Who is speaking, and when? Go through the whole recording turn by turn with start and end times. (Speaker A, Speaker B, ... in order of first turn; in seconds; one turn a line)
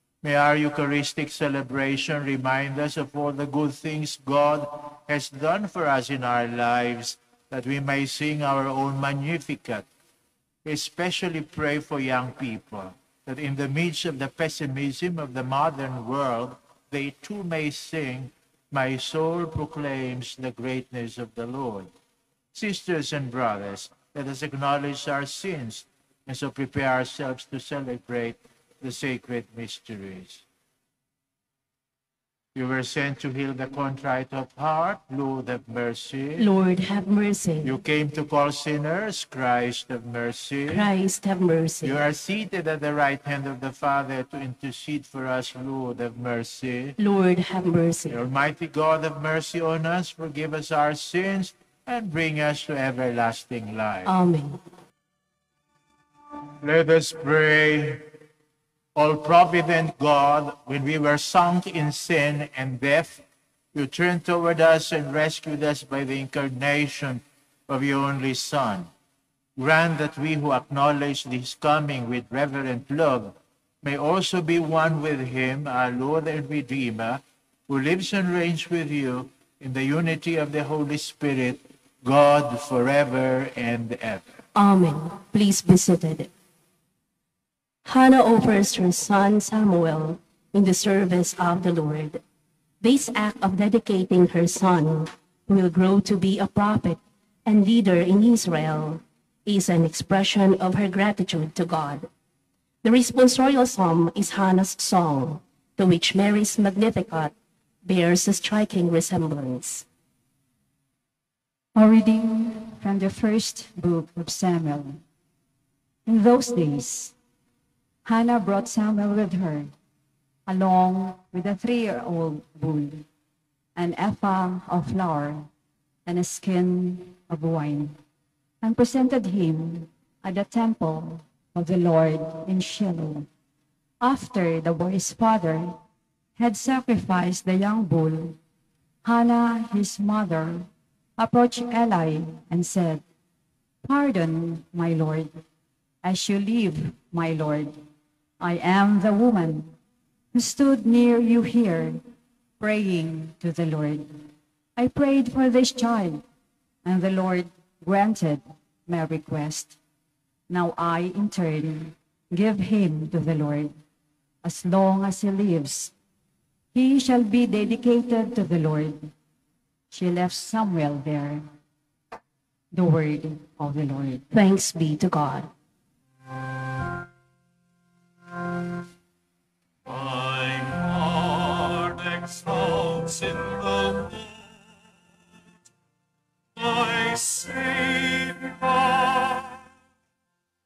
Speaker A: 0.2-9.9
Speaker A: 10.7-21.9
Speaker A: 22.5-30.4
Speaker A: 32.5-36.5
Speaker B: 36.4-37.8
Speaker A: 37.6-40.9
Speaker B: 40.7-42.0
Speaker A: 41.8-47.0
Speaker B: 47.0-48.2
Speaker A: 48.1-54.1
Speaker B: 54.0-54.6
Speaker A: 56.6-58.1
Speaker A: 59.0-63.2
Speaker A: 63.7-68.9
Speaker A: 69.6-84.4
Speaker B: 84.5-86.3
Speaker B: 87.8-92.2
Speaker B: 92.8-102.1
Speaker B: 102.8-107.3
Speaker B: 107.8-109.8
Speaker C: 111.8-115.0
Speaker C: 116.1-117.1
Speaker C: 118.0-119.7
Speaker C: 120.5-123.1
Speaker C: 123.8-125.5
Speaker C: 126.1-128.0
Speaker C: 128.6-133.3
Speaker C: 134.0-135.8
Speaker C: 136.4-138.4
Speaker C: 139.0-143.0
Speaker C: 143.8-145.4
Speaker C: 146.0-147.8
Speaker C: 148.4-149.7
Speaker C: 150.3-152.0
Speaker C: 152.6-156.2
Speaker C: 156.8-159.8
Speaker C: 160.5-163.7
Speaker C: 164.4-165.9
Speaker C: 166.7-169.1
Speaker C: 169.9-171.4
Speaker C: 172.7-174.2
Speaker B: 174.3-175.5
Speaker D: 179.9-184.8
Speaker D: 186.6-189.7